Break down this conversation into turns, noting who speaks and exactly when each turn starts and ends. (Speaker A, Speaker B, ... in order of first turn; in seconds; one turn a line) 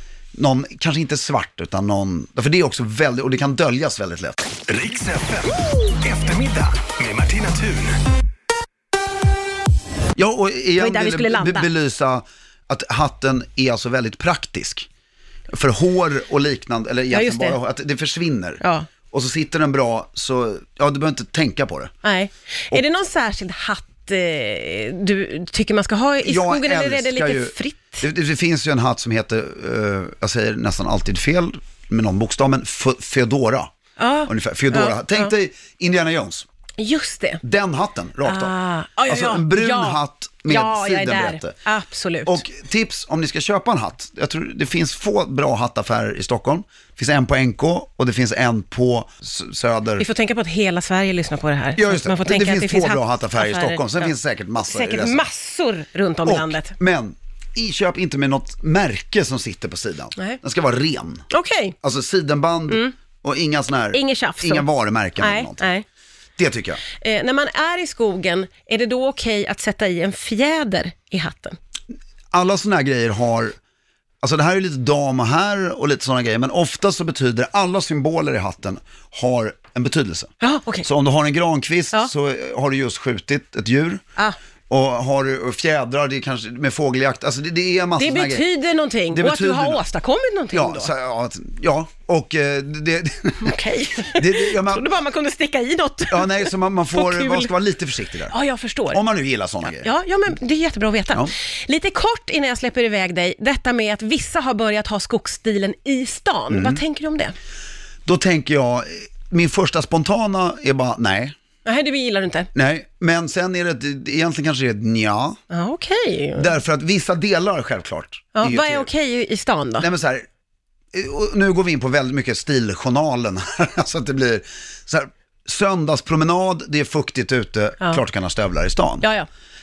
Speaker A: 0.3-4.4
Speaker B: 4.7-8.0
Speaker A: 10.2-14.9
Speaker C: 10.8-11.7
Speaker A: 15.5-21.9
Speaker C: 17.1-17.6
Speaker C: 18.6-18.9
Speaker C: 22.0-28.0
Speaker A: 26.2-33.7
Speaker C: 34.0-35.3
Speaker A: 34.3-36.5
Speaker C: 36.8-37.4
Speaker A: 37.4-38.5
Speaker C: 38.2-42.4
Speaker A: 39.1-41.5
Speaker A: 42.2-50.0
Speaker C: 50.0-54.1
Speaker A: 51.8-55.2
Speaker C: 54.7-56.7
Speaker A: 56.2-61.2
Speaker C: 61.3-61.8
Speaker A: 61.8-65.7
Speaker C: 63.9-64.7
Speaker C: 65.2-65.8
Speaker A: 66.4-66.8
Speaker C: 66.9-71.6
Speaker A: 72.3-73.5
Speaker A: 74.2-80.3
Speaker C: 80.4-80.9
Speaker A: 80.8-84.0
Speaker A: 84.7-88.4
Speaker C: 88.0-90.9
Speaker A: 89.1-89.8
Speaker A: 90.5-93.6
Speaker C: 93.4-97.5
Speaker A: 94.1-94.9
Speaker A: 96.1-98.3
Speaker C: 98.3-99.0
Speaker A: 98.9-99.9
Speaker C: 99.6-107.3
Speaker A: 106.5-106.8
Speaker A: 108.0-111.3
Speaker C: 111.6-112.5
Speaker A: 112.5-115.4
Speaker C: 115.5-116.5
Speaker A: 116.4-118.9
Speaker C: 118.3-119.9
Speaker A: 119.8-120.2
Speaker A: 120.9-129.1
Speaker C: 129.0-129.3